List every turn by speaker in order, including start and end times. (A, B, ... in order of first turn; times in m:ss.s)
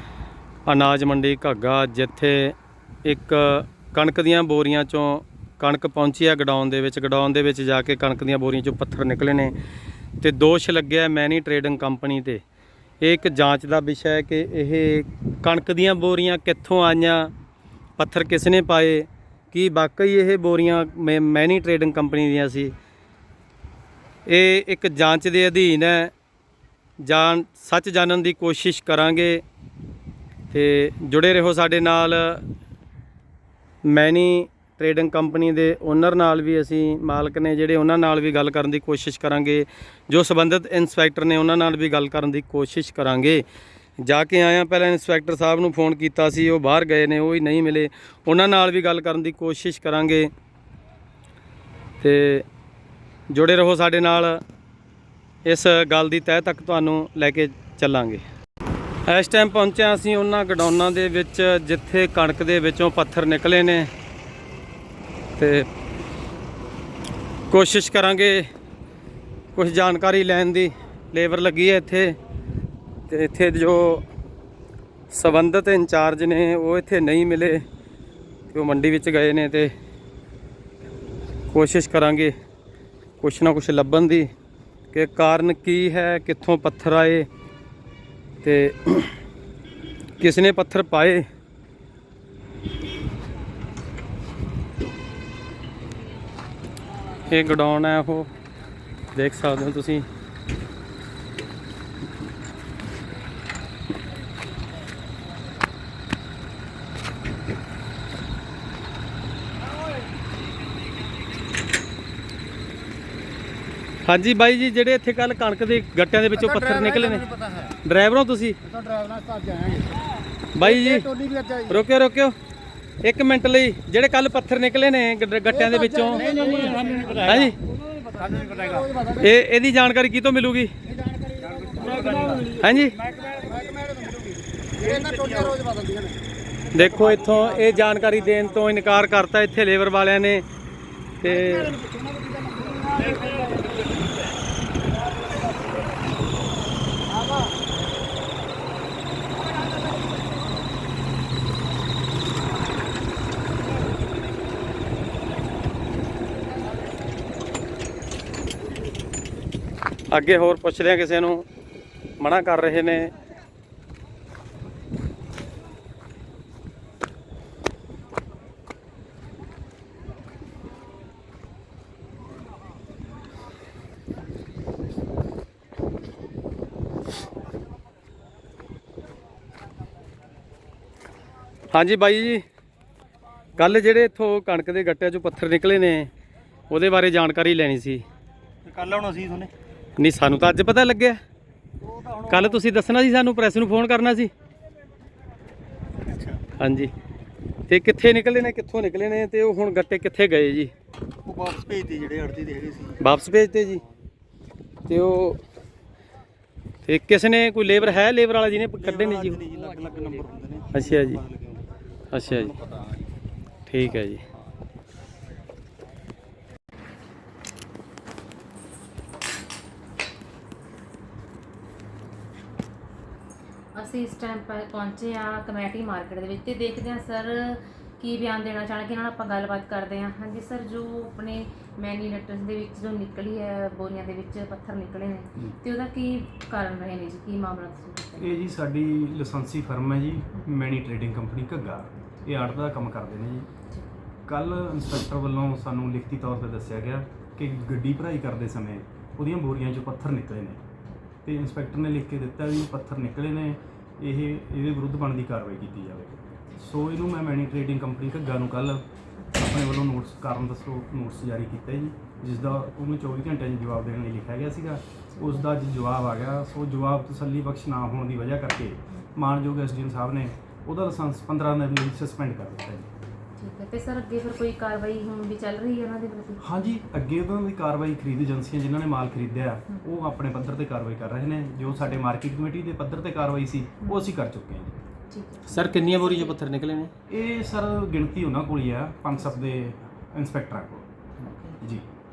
0:00.6-0:09.6 A
0:10.2-0:12.4 A
0:13.0-0:17.3 A
0:18.0-0:22.7 A
0:24.2-0:26.1 A
0:27.0-0:29.4 A
0:30.5-0:32.4 A
0:33.8-0:43.4 A
0:44.0-0:50.3 A
0:52.0-0:52.4 A
0:53.3-0:54.4 A
0:55.4-0:58.2 A
0:59.0-1:03.9 A
1:05.4-1:05.7 A
1:07.5-1:08.5 A
1:09.5-1:12.2 A
1:13.1-1:14.0 A
1:15.1-1:17.6 A
1:18.5-1:19.7 A
1:21.5-1:22.3 A
1:23.2-1:24.3 A
1:24.9-1:27.3 A
1:28.4-1:29.1 A
1:30.2-1:31.2 A
1:37.3-1:38.3 A
1:39.1-1:40.0 A
1:54.0-1:57.3 A
1:56.7-1:57.7 B
1:57.8-1:58.6 A
1:58.6-2:00.0 B
2:00.5-2:01.1 A
2:00.6-2:01.7 B
2:01.6-2:02.3 A
2:03.0-2:07.6 A
2:05.6-2:09.2 B
2:09.1-2:10.7 A
2:10.9-2:16.2 B
2:12.1-2:13.0 A
2:16.7-2:20.4 A
2:21.2-2:21.8 A
2:21.3-2:23.8 B
2:40.1-2:41.4 A
2:42.2-2:43.1 A
3:01.7-3:02.4 A
3:03.6-3:06.1 A
3:06.7-3:08.0 A
3:08.6-3:09.5 B
3:10.0-3:11.2 A
3:11.8-3:12.3 B
3:12.2-3:14.3 A
3:16.0-3:16.4 B
3:16.6-3:16.9 A
3:17.7-3:20.7 A
3:21.2-3:23.0 B
3:23.0-3:23.8 A
3:24.9-3:25.4 A
3:26.8-3:29.4 A
3:28.8-3:31.6 B
3:30.7-3:31.2 A
3:32.1-3:32.5 A
3:32.3-3:33.0 B
3:33.7-3:34.2 A
3:43.7-3:58.3 C
3:58.2-4:03.5 D
4:03.7-4:04.0 C
4:04.3-4:10.6 D
4:11.2-4:32.9 D
4:25.1-4:25.5 C
4:33.4-4:36.7 C
4:36.4-4:44.8 D
4:41.7-4:42.0 C
4:43.8-4:44.1 C
4:45.1-4:46.4 C
4:45.5-4:46.9 A
4:47.1-4:50.9 D
4:49.1-4:49.4 C
4:51.2-4:51.6 C
4:51.6-4:51.9 D